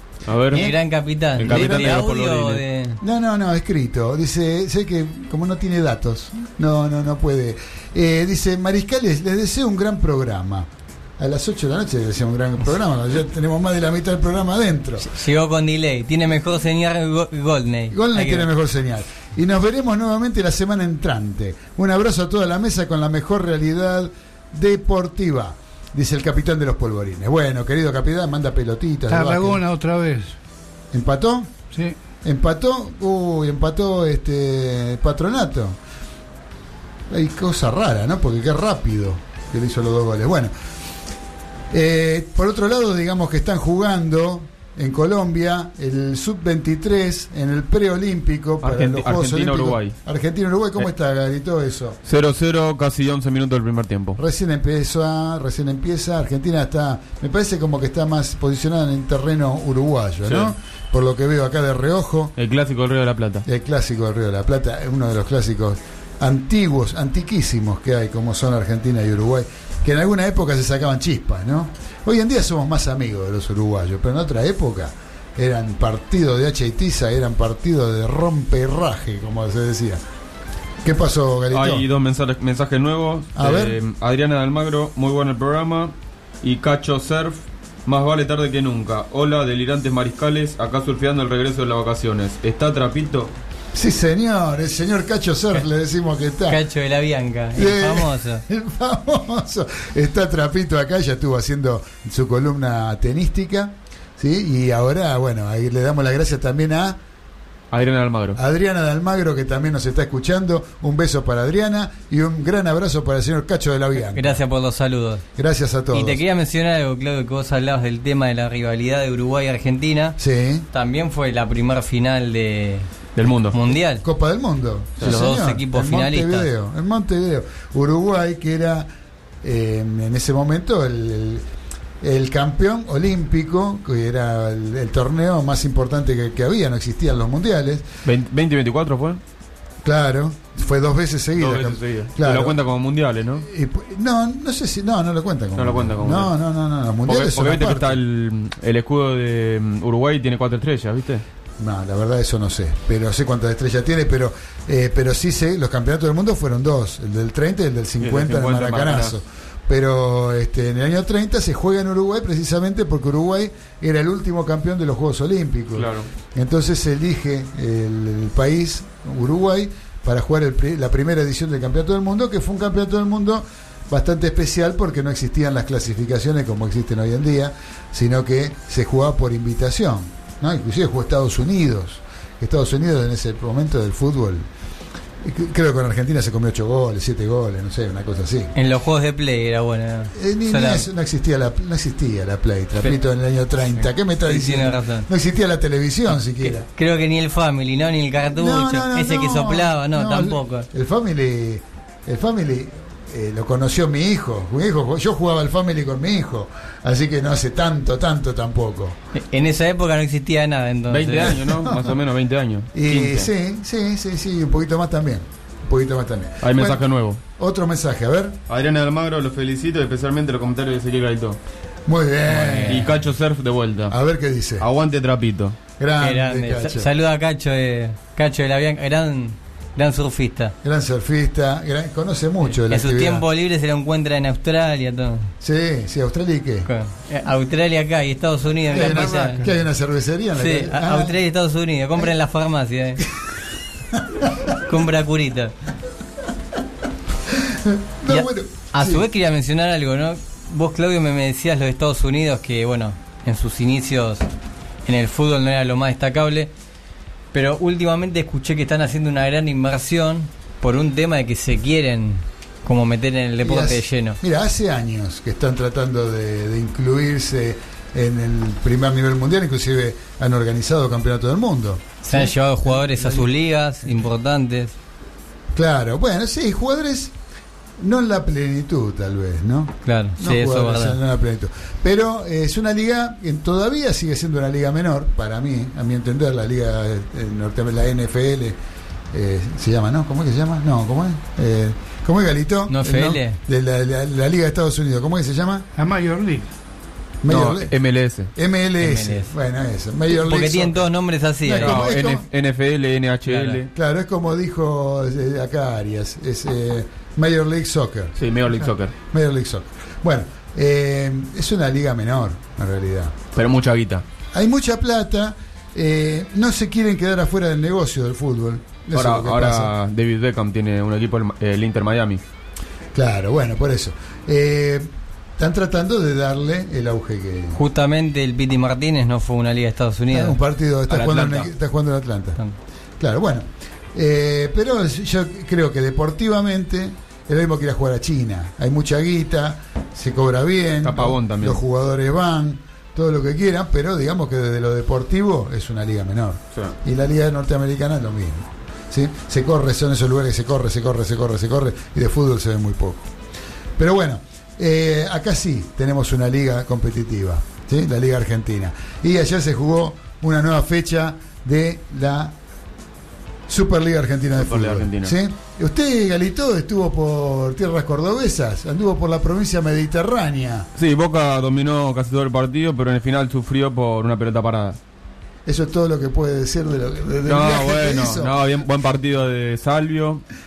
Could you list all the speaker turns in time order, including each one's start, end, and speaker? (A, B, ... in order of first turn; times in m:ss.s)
0:00.2-0:00.7 A
0:00.5-0:00.7 B
0:00.5-0:03.0 C
0:01.4-0:02.6 A
0:01.4-0:02.1 B
0:03.0-0:15.1 B
0:15.0-0:18.5 C
0:17.9-0:29.6 B
0:29.1-0:30.4 D
0:30.9-0:31.5 B
0:32.2-0:35.8 B
0:37.1-0:40.5 B
0:41.7-0:52.0 B
0:48.6-0:49.9 A
0:52.0-0:54.2 A
0:54.2-1:02.3 B
1:00.2-1:00.5 A
1:02.4-1:03.4 A
1:03.4-1:20.0 B
1:20.8-1:21.8 B
1:21.5-1:33.3 A
1:23.4-1:23.8 B
1:33.7-1:36.6 B
1:36.5-1:38.4 C
1:37.5-1:47.0 B
1:47.7-1:48.4 A
1:48.3-1:54.4 B
1:54.1-1:55.2 C
1:55.4-1:56.2 B
1:55.9-2:00.2 C
2:00.2-2:00.6 B
2:00.7-2:02.9 C
2:03.2-2:03.6 A
2:03.5-2:04.0 C
2:04.0-2:08.9 B
2:05.0-2:06.5 C
2:09.4-2:11.4 B
2:12.0-2:17.9 B
2:18.0-2:19.2 A
2:19.8-2:22.6 B
2:21.4-2:23.4 A
2:23.4-2:28.0 B
2:25.6-2:26.3 A
2:27.0-2:31.2 A
2:31.6-3:04.5 B
2:38.0-2:39.1 A
2:45.7-2:46.1 A
3:05.2-3:08.5 B
3:08.5-3:10.8 C
3:10.1-3:16.6 B
3:14.2-3:15.1 C
3:16.4-3:20.7 C
3:18.3-3:29.0 B
3:29.1-3:31.4 C
3:30.9-3:33.3 A
3:31.4-3:31.9 B
3:32.7-3:38.4 B
3:36.4-3:37.2 A
3:38.5-3:41.4 A
3:41.8-3:43.0 B
3:42.3-3:42.8 C
3:42.7-3:44.0 A
3:43.9-3:44.6 B
3:44.6-3:45.6 A
3:45.8-3:46.9 B
3:46.0-3:50.5 C
3:50.6-3:53.2 B
3:52.7-3:55.3 C
3:55.4-3:56.7 B
3:56.6-3:59.5 C
3:58.7-4:01.2 B
3:58.8-3:59.3 D
4:00.3-4:03.0 C
4:04.6-4:05.5 C
4:07.3-4:09.0 B
4:08.1-4:14.2 C
4:14.8-4:16.5 C
4:17.3-4:24.2 C
4:23.4-4:33.3 B
4:32.0-4:34.7 C
4:35.5-4:37.1 B
4:37.8-4:48.6 B
4:39.8-4:41.0 C
4:49.1-4:55.7 B
4:52.7-4:53.4 C
4:55.8-4:56.5 D
4:57.2-4:57.8 B
4:57.3-4:58.3 A
4:58.3-5:00.9 B
4:58.8-4:59.3 C
5:00.1-5:01.8 C
5:01.4-5:02.2 B
5:01.6-5:03.7 A
5:03.2-5:03.6 C
5:03.7-5:08.2 B
5:08.2-5:08.9 A
5:09.1-5:13.2 B
5:13.3-5:14.0 A
5:14.3-5:19.7 B
5:18.9-5:22.2 A
5:22.9-5:27.6 B
5:27.5-5:30.4 C
5:30.1-5:32.4 B
5:30.9-5:31.5 A
5:33.0-5:53.1 B
5:40.8-5:41.6 A
5:53.8-6:02.4 B
6:03.5-6:10.7 B
6:04.4-6:05.1 A
6:10.8-6:14.8 A
6:15.4-6:18.3 B
6:17.3-6:20.2 A